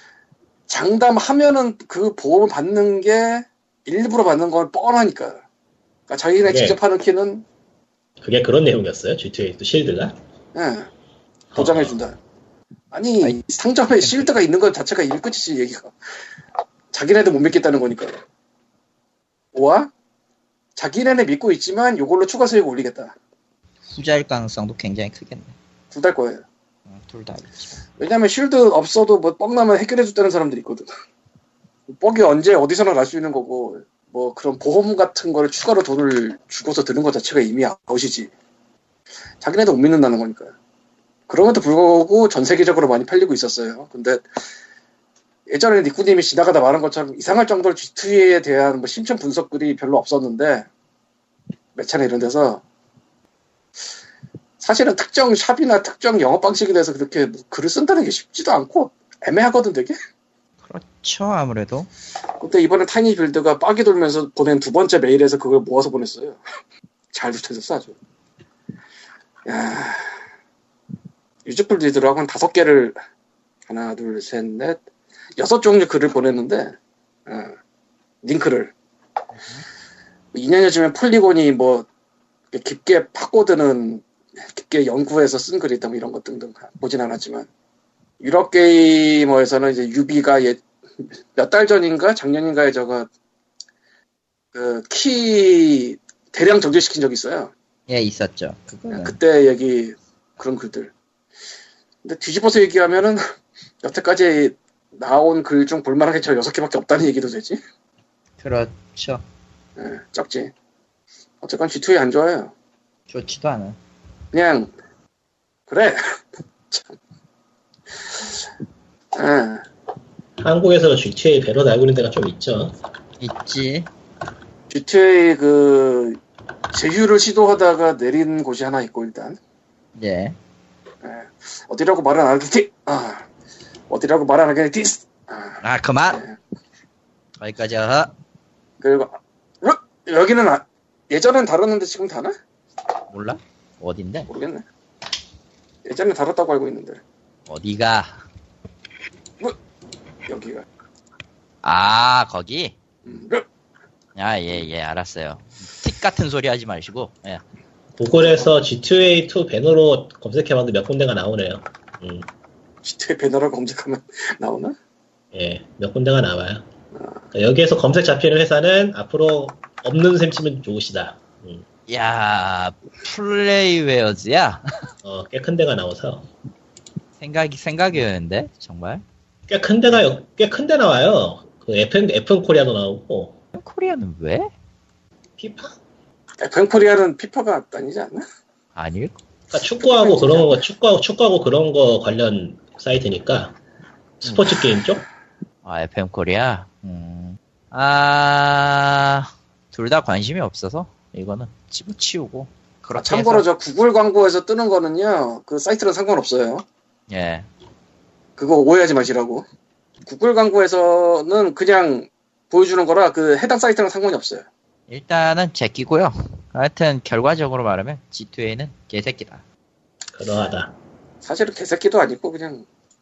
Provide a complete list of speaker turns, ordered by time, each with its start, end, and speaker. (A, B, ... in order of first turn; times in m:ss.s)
0:00.7-0:05.4 A
0:06.1-0:07.4 A
0:06.4-0:06.8 B
0:08.2-0:10.2 B
0:10.5-0:10.9 A
0:11.5-0:12.0 B
0:11.5-0:12.2 A
0:12.9-0:15.9 A
0:16.9-0:18.2 A
0:19.5-0:19.9 A
0:20.8-0:23.1 A
0:23.8-0:25.5 C
0:25.9-0:26.4 A
0:26.9-0:27.8 C
0:28.0-0:30.9 A
0:31.9-0:38.3 A
0:39.4-0:40.5 A
0:41.3-0:44.2 A
0:45.5-0:50.6 A
0:51.8-0:52.6 A
0:54.6-0:59.9 A
1:00.6-1:01.9 C
1:02.4-1:06.4 A
1:07.1-1:07.9 A
1:09.4-1:10.1 A
1:11.4-1:13.0 A
1:13.7-1:14.8 A
1:15.4-1:16.7 A
1:17.3-1:17.5 A
1:18.2-1:18.7 A
1:20.3-1:21.9 A
1:22.5-1:27.5 A
1:28.2-1:30.6 A
1:31.3-1:33.1 A
1:34.5-1:37.5 A
1:37.9-1:39.2 C
1:38.9-1:40.9 A
1:42.0-1:43.2 A
1:43.8-1:47.6 A
1:48.4-1:49.2 C
1:49.8-1:50.5 A
1:51.4-1:52.5 A
1:53.1-1:53.8 C
1:54.3-1:54.7 A
1:55.7-1:56.0 A
1:59.1-1:59.6 A
2:00.4-2:02.7 B
2:03.2-2:03.9 C
2:04.7-2:06.2 A
2:06.7-2:09.4 A
2:10.0-2:10.4 C
2:11.0-2:13.2 A
2:13.9-2:15.6 A
2:15.6-2:16.2 C
2:17.4-2:18.1 C
2:18.8-2:22.3 A
2:23.1-2:24.3 C
2:24.3-2:24.6 A
2:25.8-2:27.0 A
2:27.5-2:28.2 C
2:30.2-2:30.6 A
2:31.6-2:32.7 C
2:33.0-2:33.4 A
2:34.2-2:37.4 C
2:38.0-2:42.3 B
2:42.8-2:44.7 A
2:45.3-2:46.6 B
2:47.3-2:51.6 B
2:51.9-2:54.9 C
2:55.0-2:56.2 B
2:57.2-2:59.0 C
2:59.5-3:03.3 B
3:03.6-3:04.5 C
3:05.4-3:05.7 B
3:06.4-3:08.2 A
3:08.8-3:09.1 C
3:09.5-3:13.6 B
3:10.0-3:10.5 A
3:14.2-3:15.0 B
3:15.6-3:23.4 C
3:23.0-3:26.6 A
3:27.1-3:27.4 C
3:28.4-3:29.4 A
3:30.0-3:34.4 A
3:34.9-3:39.4 C
3:40.1-3:40.7 B
3:41.2-3:42.6 A